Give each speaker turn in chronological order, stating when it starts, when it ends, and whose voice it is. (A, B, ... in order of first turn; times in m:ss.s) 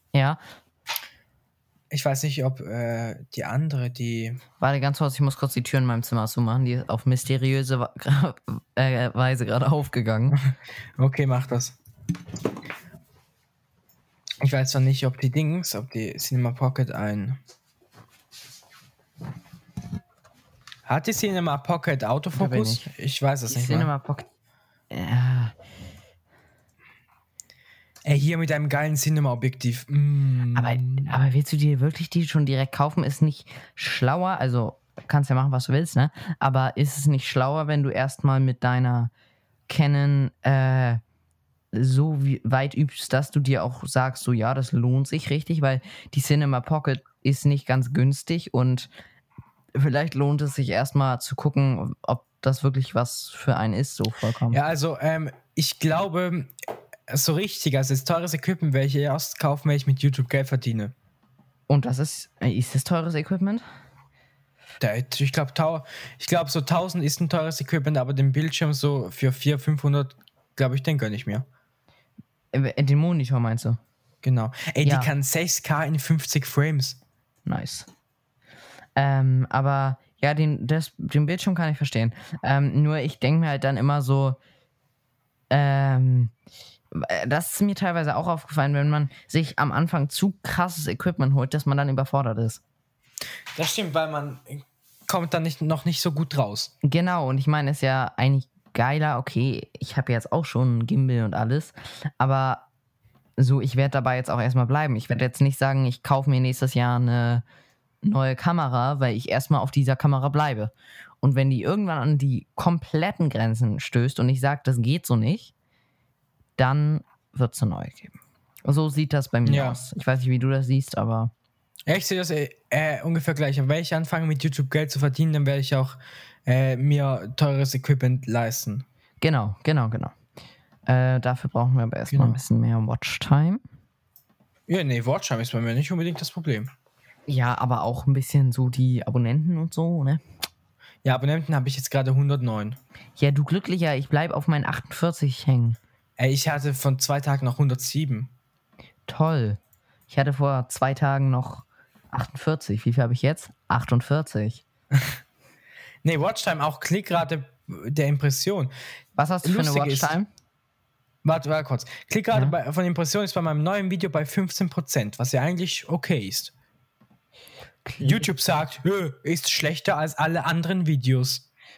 0:00.1-0:00.4 A
0:01.9-0:04.4 B
0:04.6-0:10.4 A
0:11.0-0:11.8 B
0:14.4-0:17.4 B
0:20.8-0:23.9 B
0:22.3-0:22.9 A
0:23.5-0:24.3 A
0:24.9-0:25.5 A
0:28.0-0:31.1 B
0:30.5-0:39.1 A
0:39.7-0:41.0 A
0:41.7-0:48.9 A
0:49.7-0:54.6 A
0:54.5-0:56.5 B
0:57.1-1:00.9 B
1:01.7-1:03.6 A
1:04.8-1:11.4 B
1:12.5-1:13.8 A
1:14.2-1:17.0 B
1:14.8-1:15.1 A
1:17.4-1:17.9 A
1:19.0-1:24.4 A
1:25.5-1:26.3 A
1:26.9-1:32.6 A
1:33.5-1:36.7 B
1:36.8-1:42.6 A
1:43.4-1:47.4 A
1:48.0-1:55.5 A
1:56.6-2:01.3 A
1:59.4-1:59.8 B
2:01.9-2:08.8 B
2:09.2-2:10.1 A
2:10.9-2:13.6 A
2:12.1-2:12.4 B
2:14.7-2:16.7 B
2:17.3-2:20.2 A
2:21.0-2:22.8 B
2:23.2-2:25.8 A
2:26.2-2:28.3 B
2:29.1-2:34.6 A
2:36.0-2:38.7 B
2:39.2-2:40.3 A
2:39.4-2:40.2 B
2:41.2-2:46.5 B
2:47.8-2:48.3 A
2:48.0-2:51.4 B